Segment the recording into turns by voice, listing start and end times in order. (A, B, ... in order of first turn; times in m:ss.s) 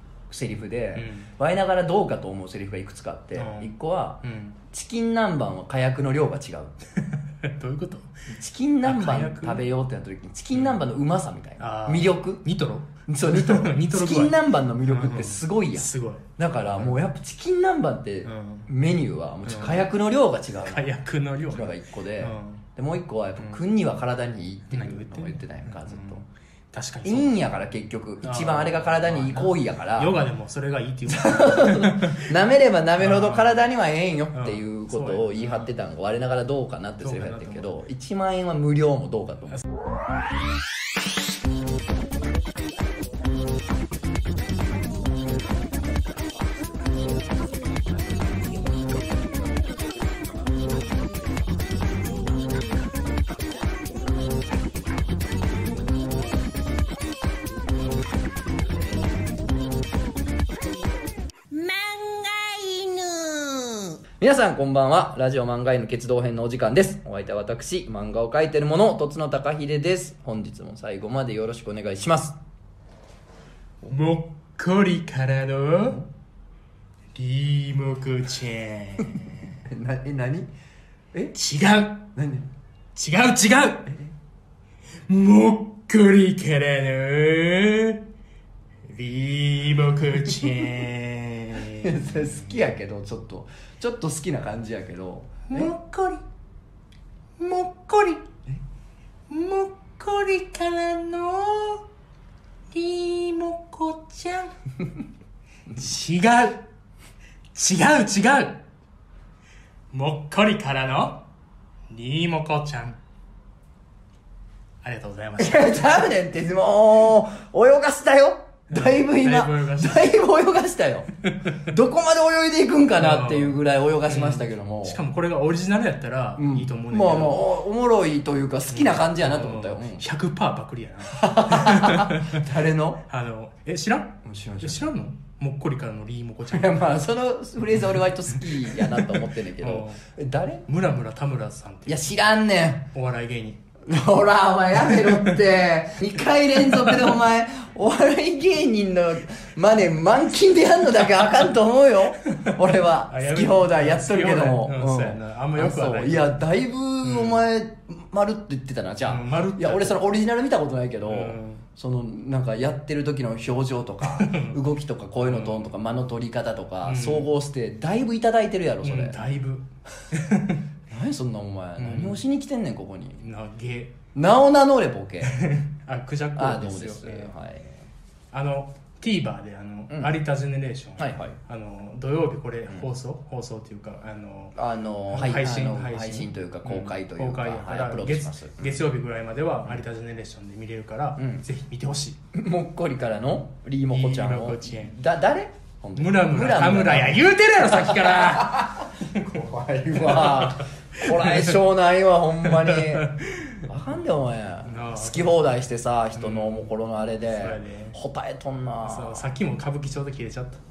0:00.3-0:06.8 A
0:01.0-0:01.3 B
0:03.4-0:03.7 B
0:04.2-0:04.6 B
0:07.0-0:08.1 B
0:08.3-0:12.4 A
0:08.8-0:09.6 B
0:10.5-0:10.8 B
0:11.6-0:17.0 B
0:13.1-0:20.9 A
0:18.2-0:18.7 B
0:19.5-0:19.9 B
0:20.6-0:22.6 B
0:21.5-0:26.2 A
0:24.7-0:27.4 B
0:27.0-0:30.2 A
0:28.2-0:32.4 B
0:31.1-0:39.6 A
0:33.0-0:33.6 B
0:34.3-0:35.7 B
0:37.0-0:37.7 B
1:01.5-1:04.0 C
1:04.2-1:12.4 A
1:13.9-1:16.0 B
1:17.2-1:19.6 B
1:19.6-1:20.5 A
1:21.3-1:22.1 B
1:22.1-1:22.5 A
1:23.0-1:23.9 B
1:25.1-1:28.1 B
1:28.8-1:32.7 B
1:31.7-1:35.7 A
1:35.5-1:36.2 B
1:37.4-1:38.3 B
1:39.3-1:41.9 B
1:42.7-1:44.5 B
1:45.7-1:46.7 B
1:47.5-1:48.6 B
1:49.9-1:51.2 B
1:51.9-1:53.0 B
1:54.8-1:56.0 B
1:55.4-2:05.0 A
1:58.7-2:00.1 B
2:01.2-2:01.6 B
2:03.0-2:07.5 B
2:06.4-2:10.0 A
2:08.7-2:12.5 B
2:11.1-2:13.0 A
2:13.0-2:16.9 B
2:14.2-2:14.9 A
2:16.5-2:20.7 A
2:17.8-2:20.0 B
2:20.7-2:22.0 B
2:21.9-2:22.9 A
2:22.9-2:23.6 B
2:23.9-2:49.2 A
2:24.8-2:25.4 B
2:26.6-2:27.1 B
2:32.3-2:36.4 B
2:37.0-2:37.5 B
2:39.1-2:40.0 B
2:41.0-2:41.7 B
2:44.0-2:44.6 B
2:45.2-2:45.7 B
2:46.8-2:47.3 B
2:48.8-2:50.6 B
2:50.9-2:53.2 A
2:51.8-2:52.2 B
2:53.2-2:54.0 B
2:54.1-2:55.4 A
2:55.2-2:57.3 B
2:56.4-2:57.8 A
2:58.3-3:04.6 B
2:59.9-3:00.2 A
3:01.0-3:01.4 A
3:04.6-3:08.8 A
3:05.1-3:12.2 B
3:11.2-3:11.4 A
3:12.3-3:23.1 A
3:13.9-3:15.0 B
3:16.0-3:21.6 B
3:22.4-3:23.6 B
3:23.6-3:29.3 A
3:24.6-3:25.5 B
3:26.2-3:26.7 B
3:27.3-3:28.0 B
3:28.8-3:30.6 B